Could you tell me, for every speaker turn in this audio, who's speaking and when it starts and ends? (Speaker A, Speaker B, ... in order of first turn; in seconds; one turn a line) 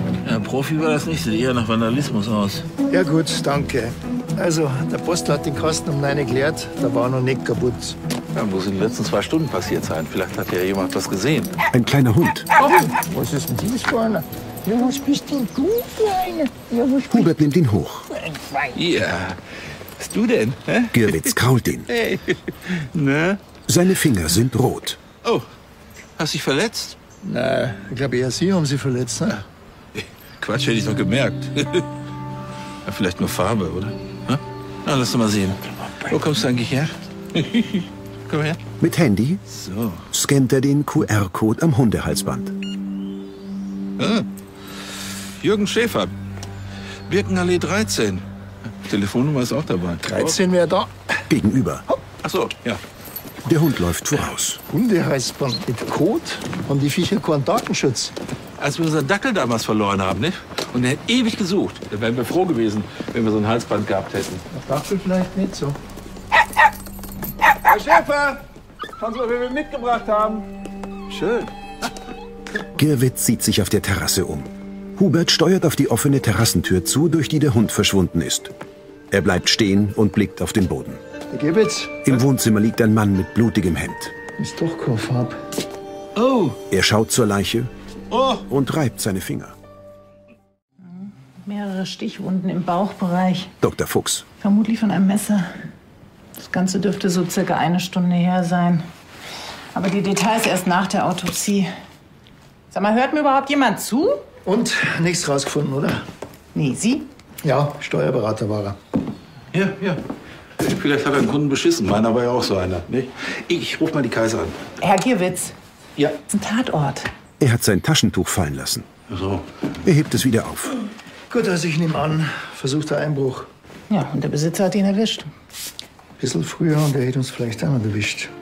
Speaker A: 0.2-2.6
Speaker B: 2.9-8.0
Speaker A: 8.3-11.6
Speaker C: 11.7-12.5
Speaker B: 12.6-17.3
Speaker C: 17.1-18.1
Speaker B: 18.1-18.7
Speaker A: 18.7-19.4
Speaker A: 20.0-21.3
Speaker C: 20.9-21.9
Speaker A: 21.9-23.4
Speaker C: 23.7-25.0
Speaker A: 26.2-27.0
Speaker B: 27.2-29.4
Speaker A: 29.9-31.9
Speaker A: 32.8-38.6
Speaker C: 38.8-39.4
Speaker A: 39.5-40.0
Speaker C: 40.1-42.5
Speaker A: 44.0-44.2
Speaker A: 45.4-46.1
Speaker A: 47.1-48.2
Speaker A: 48.8-50.3
Speaker B: 50.0-51.1
Speaker C: 51.3-51.9
Speaker A: 52.2-52.8
Speaker C: 53.5-54.6
Speaker B: 54.7-58.1
Speaker A: 58.6-64.4
Speaker B: 64.5-65.8
Speaker A: 67.6-68.4
Speaker A: 69.0-70.4
Speaker A: 71.1-71.5
Speaker C: 72.8-78.5
Speaker C: 79.1-81.0
Speaker B: 81.3-82.0
Speaker C: 82.0-84.1
Speaker B: 84.4-85.4
Speaker A: 86.2-86.6
Speaker C: 86.7-87.7
Speaker A: 88.1-88.4
Speaker C: 88.5-89.5
Speaker D: 90.9-93.5
Speaker C: 93.6-94.2
Speaker D: 94.4-95.7
Speaker D: 96.4-98.9
Speaker D: 99.7-101.7
Speaker D: 102.7-104.2
Speaker B: 104.4-106.0
Speaker D: 106.5-107.1
Speaker B: 107.4-108.8
Speaker A: 109.5-110.0
Speaker A: 110.6-114.7
Speaker D: 114.8-115.5
Speaker D: 116.3-117.1
Speaker C: 117.4-118.9
Speaker A: 119.1-119.4
Speaker C: 119.8-120.7
Speaker B: 121.3-123.5
Speaker D: 123.9-125.3
Speaker B: 126.2-128.3